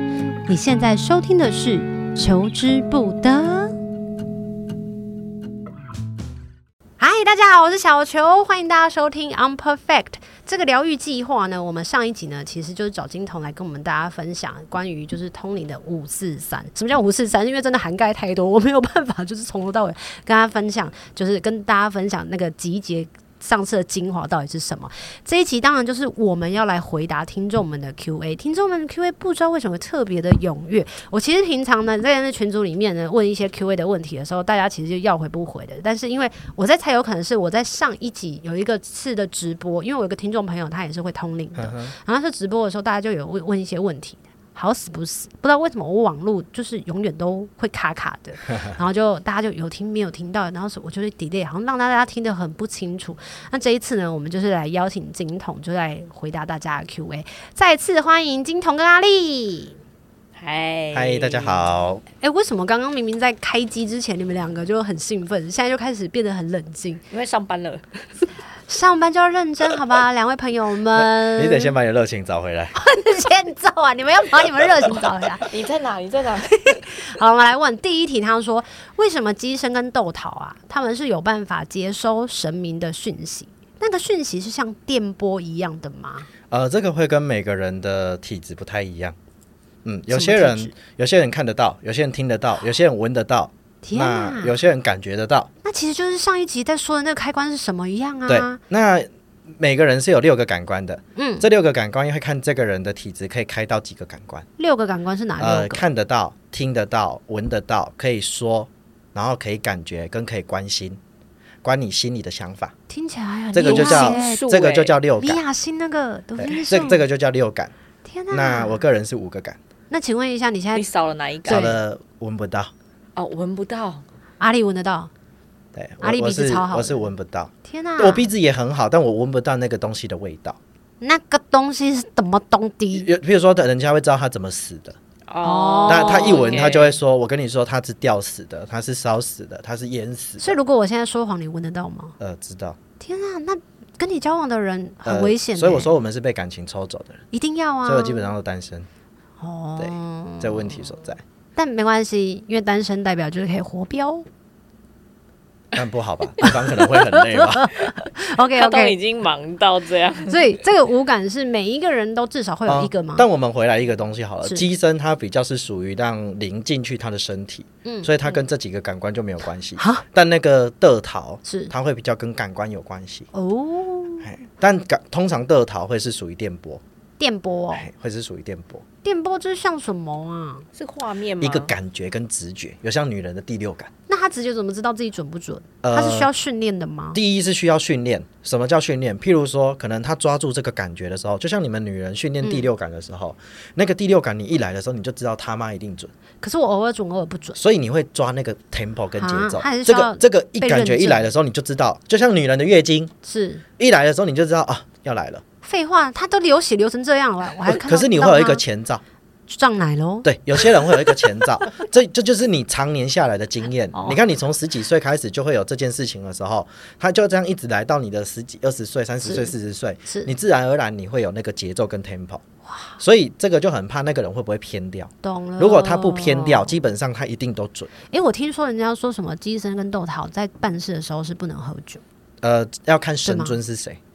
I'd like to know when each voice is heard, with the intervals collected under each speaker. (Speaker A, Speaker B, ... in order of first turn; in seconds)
Speaker A: 0.5-3.8, 7.0-59.8, 62.2-67.0, 68.7-71.7, 72.7-75.5, 76.5-86.3, 90.1-90.7, 93.8-94.5, 95.6-98.6, 101.2-101.5, 104.6-105.8, 112.9-114.4, 115.2-117.0, 118.0-118.8, 119.9-120.8, 121.5-121.8, 124.4-125.1, 126.0-127.1, 127.6-128.2, 131.0-133.1, 135.4-136.7, 140.4-142.1, 143.0-145.9, 147.3-148.3, 149.4-150.9, 151.6-154.2, 156.4-159.0, 160.2-163.2, 167.8-168.3, 169.8-170.0, 171.4-171.7, 173.3-174.3, 177.2-177.9, 179.0-180.7, 184.1-187.2, 196.4-197.6, 199.2-201.2, 203.2-203.6, 205.6-208.6, 209.5-211.2, 213.9-214.2, 219.2-219.5, 220.1-220.3, 222.7-222.9, 225.2-226.8, 228.1-232.0, 233.2-233.6
Speaker B: 41.5-42.0, 60.9-62.0, 70.9-72.7, 86.5-89.2, 89.8-95.5, 98.3-104.4, 105.4-111.0, 111.6-112.7, 113.5-115.4, 116.4-117.7, 118.3-119.6, 121.5-122.7, 125.8-130.6, 132.9-135.0, 135.8-140.5, 142.2-142.8, 145.0-147.2, 147.8-148.9, 149.8-151.2, 155.7-157.8, 162.7-173.3, 174.2-176.8, 177.8-178.8, 181.4-183.9, 185.8-186.3, 187.1-196.1, 197.6-203.1, 203.8-205.4, 207.7-209.0, 210.2-222.4, 223.0-227.9, 232.4-234.0
Speaker C: 60.4-61.7, 67.1-68.2, 75.3-76.8, 113.6-115.0, 120.7-121.7, 123.2-124.0, 135.3-137.0, 158.5-160.6, 180.8-181.7